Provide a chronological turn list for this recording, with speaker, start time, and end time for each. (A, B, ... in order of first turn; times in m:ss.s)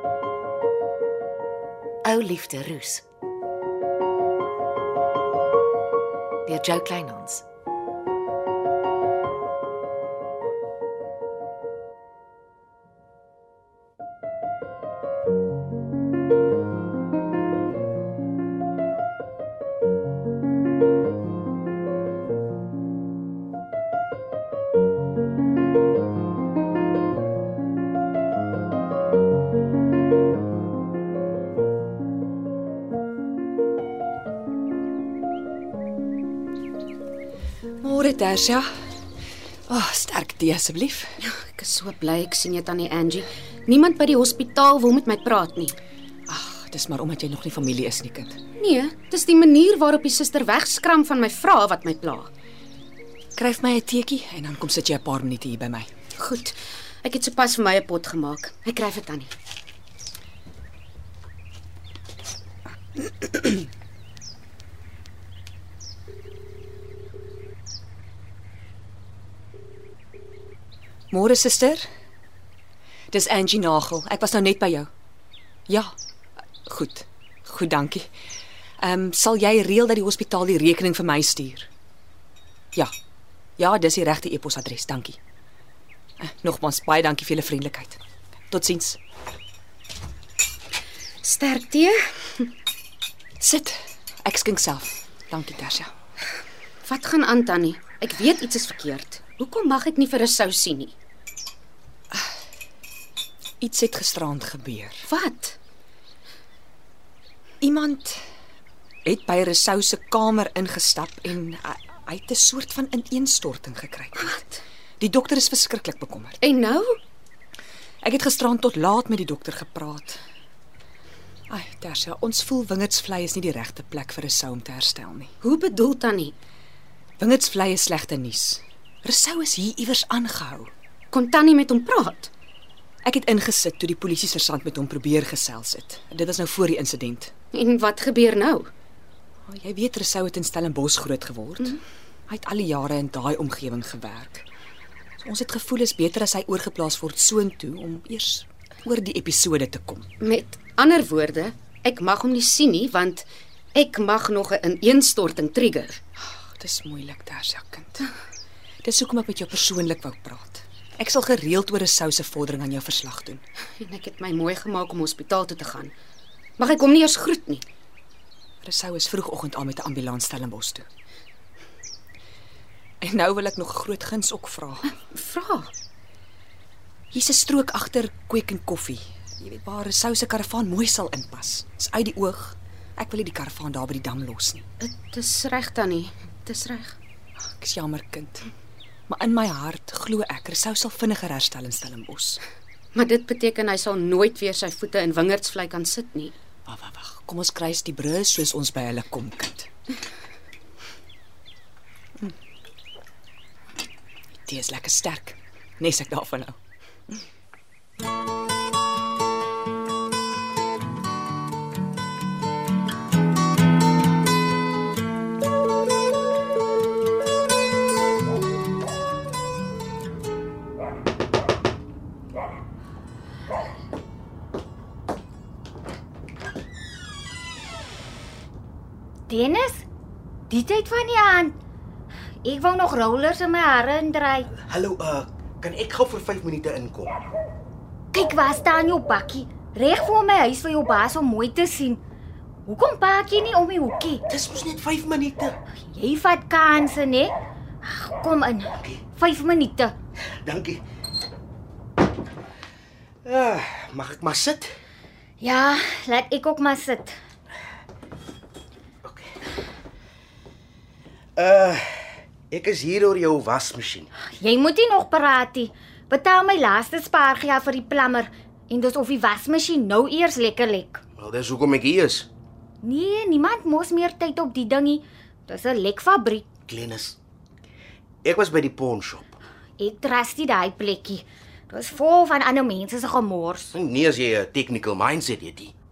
0:02.0-0:03.0 A
0:06.4-0:07.4 A
0:37.8-0:38.6 B
0:39.7-0:41.2 B
0:41.2-0:45.8 C
0:46.3-0:48.4 B
0:48.6-0:52.3 C
0:53.4-0:55.9 B
0:56.2-0:59.3 C
1:11.1-1:11.8 B
1:13.1-1:14.9 B
1:15.7-1:15.9 B
1:16.6-1:18.1 B
1:18.8-1:21.7 B
1:23.6-1:25.2 B
1:26.2-1:29.0 B
1:31.2-1:32.5 C
1:33.4-1:35.9 B
1:36.8-1:40.9 C
1:43.6-1:45.0 B
1:45.0-1:45.6 C
1:47.6-1:48.2 B
1:49.0-1:54.4 B
1:54.2-1:54.6 C
1:55.0-1:56.4 B
1:56.4-1:57.0 C
1:58.0-2:00.2 B
2:01.5-2:05.3 B
2:05.4-2:06.3 C
2:07.2-2:10.7 B
2:11.1-2:12.3 C
2:13.0-2:17.3 B
2:17.5-2:18.7 C
2:19.5-2:21.8 B
2:22.3-2:24.4 B
2:25.2-2:30.1 B
2:30.2-2:36.0 C
2:36.4-2:38.1 B
2:38.8-2:43.4 B
2:43.8-2:45.9 C
2:46.6-2:47.6 C
2:48.6-2:50.8 B
2:53.0-2:54.9 B
2:55.0-2:55.7 C
2:57.1-3:04.6 B
3:04.8-3:07.0 C
3:07.4-3:08.4 B
3:09.1-3:12.4 B
3:12.9-3:16.3 C
3:16.7-3:19.7 B
3:24.4-3:26.6 B
3:49.3-3:49.8 D
3:50.5-3:51.5 D
3:52.4-3:54.5 D
3:54.7-3:57.2 E
3:58.1-4:02.0 D
4:02.6-4:04.2 D
4:04.3-4:05.5 E
4:05.8-4:09.9 D
4:10.4-4:10.8 E
4:13.2-4:14.7 E
4:15.4-4:17.2 D
4:19.0-4:19.3 E
4:21.4-4:24.1 E
4:24.2-4:31.0 D
4:31.2-4:32.3 E
4:32.8-4:36.4 D
4:36.7-4:37.2 E
4:38.2-4:39.2 E
4:39.8-4:43.7 D
4:43.7-4:45.7 E